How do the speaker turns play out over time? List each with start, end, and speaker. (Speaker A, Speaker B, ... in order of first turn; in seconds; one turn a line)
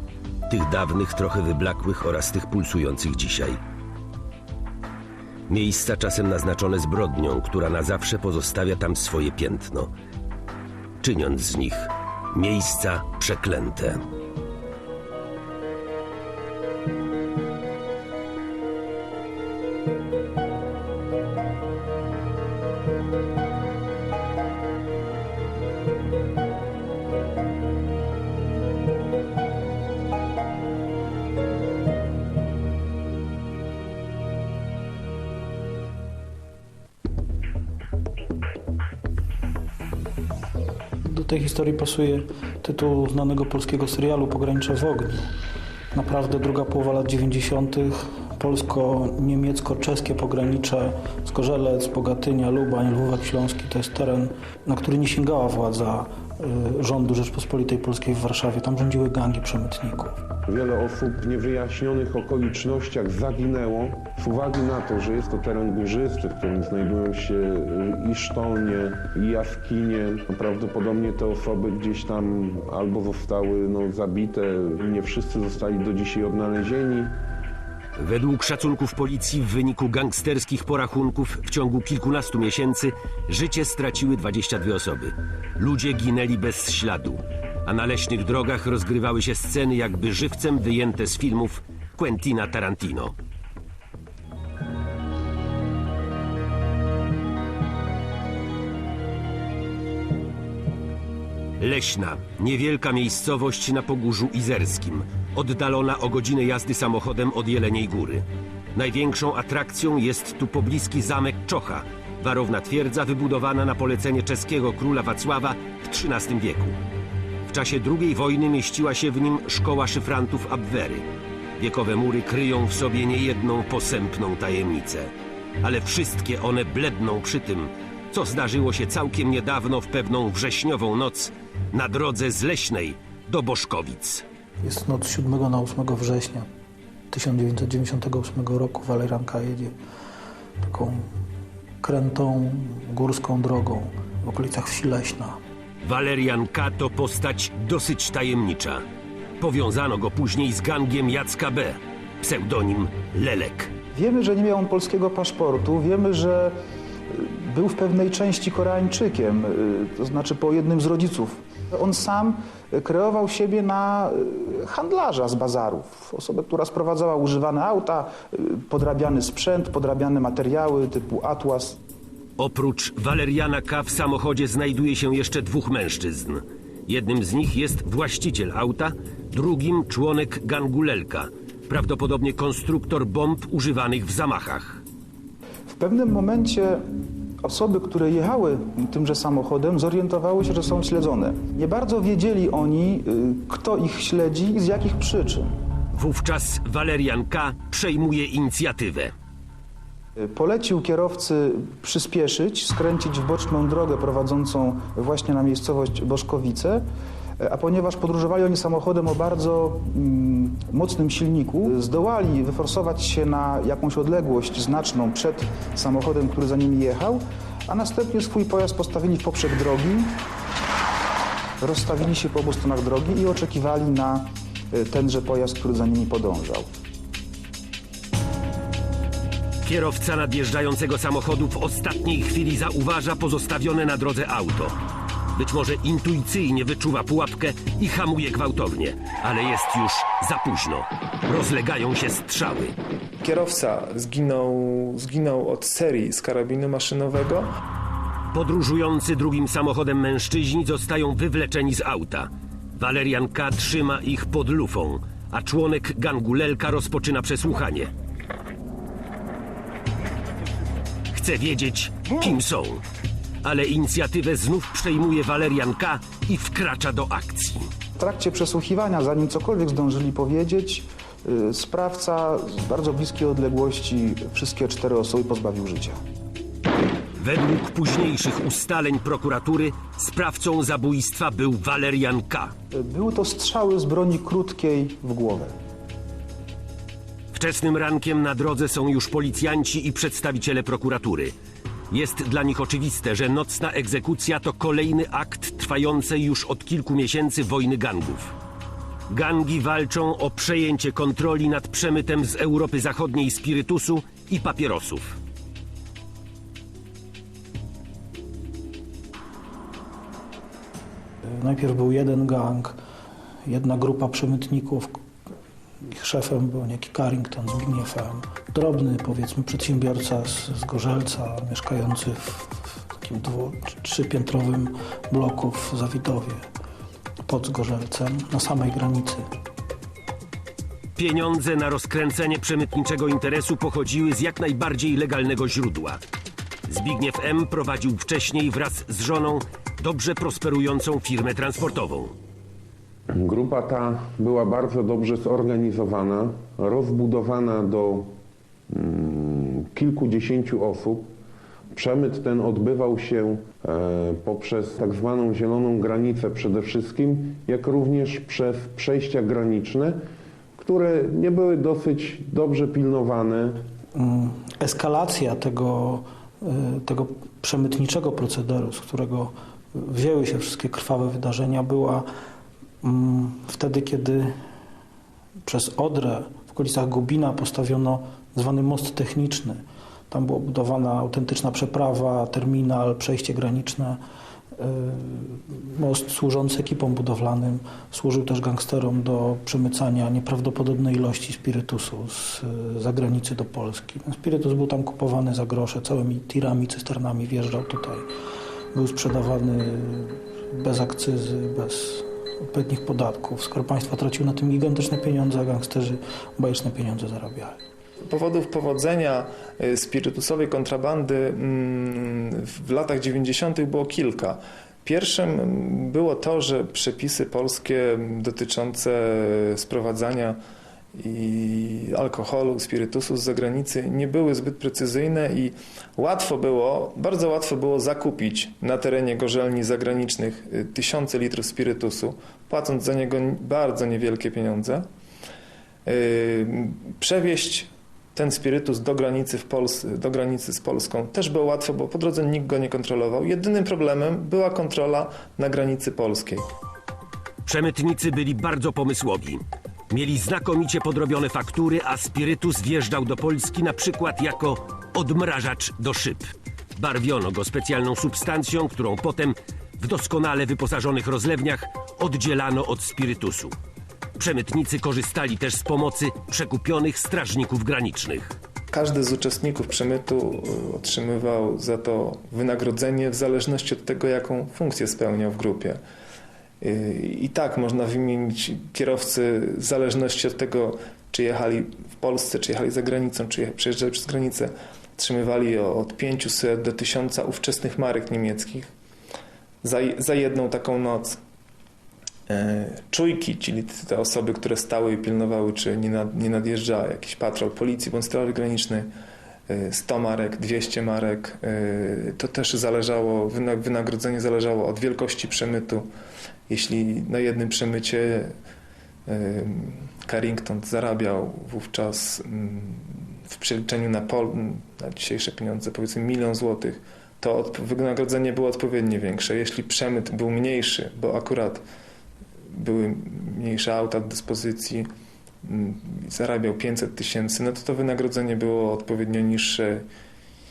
Speaker A: 0.5-3.6
Speaker A: 5.5-9.9
Speaker A: 11.0-14.0
Speaker B: 41.0-45.3
Speaker B: 45.9-60.2
Speaker C: 60.5-77.2
Speaker A: 78.0-93.1
Speaker A: 101.6-116.8
Speaker A: 117.5-121.1
Speaker A: 121.6-125.1
Speaker A: 125.6-134.2
Speaker B: 134.6-136.5
Speaker B: 137.1-139.7
Speaker B: 140.6-141.0
Speaker B: 141.8-145.4
Speaker A: 145.8-148.8
Speaker A: 149.4-153.7
Speaker D: 153.9-156.5
Speaker D: 157.1-171.8
Speaker A: 172.4-184.8
Speaker D: 185.7-186.8
Speaker D: 187.4-195.5
Speaker A: 195.9-199.1
Speaker D: 200.2-206.8
Speaker D: 207.4-220.2
Speaker D: 221.6-226.7
Speaker A: 229.6-234.8
Speaker A: 235.3-242.7
Speaker E: 243.2-247.5
Speaker A: 248.3-257.9
Speaker A: 261.1-262.8
Speaker A: 263.4-267.7
Speaker D: 268.0-276.0
Speaker A: 277.2-282.5
Speaker D: 282.7-285.5
Speaker A: 287.3-291.3
Speaker A: 291.9-298.3
Speaker A: 299.1-305.2
Speaker B: 311.2-312.8
Speaker B: 313.4-314.9
Speaker B: 315.8-326.4
Speaker B: 327.3-329.2
Speaker A: 330.9-336.0
Speaker A: 336.7-342.1
Speaker C: 343.1-348.1
Speaker C: 348.7-351.1
Speaker C: 351.7-360.0
Speaker C: 360.6-363.6
Speaker B: 363.9-372.0
Speaker B: 372.8-374.3
Speaker B: 375.4-384.0
Speaker B: 384.6-398.1
Speaker B: 398.7-407.6
Speaker E: 408.1-420.4
Speaker E: 420.9-434.8
Speaker E: 435.9-446.4
Speaker A: 447.4-463.5
Speaker A: 464.2-468.3
Speaker E: 468.7-475.8
Speaker E: 476.6-488.7
Speaker E: 489.6-491.2
Speaker E: 492.3-498.9
Speaker E: 499.5-505.9
Speaker E: 506.5-508.3
Speaker E: 509.1-521.6
Speaker E: 522.5-524.9
Speaker E: 525.4-529.8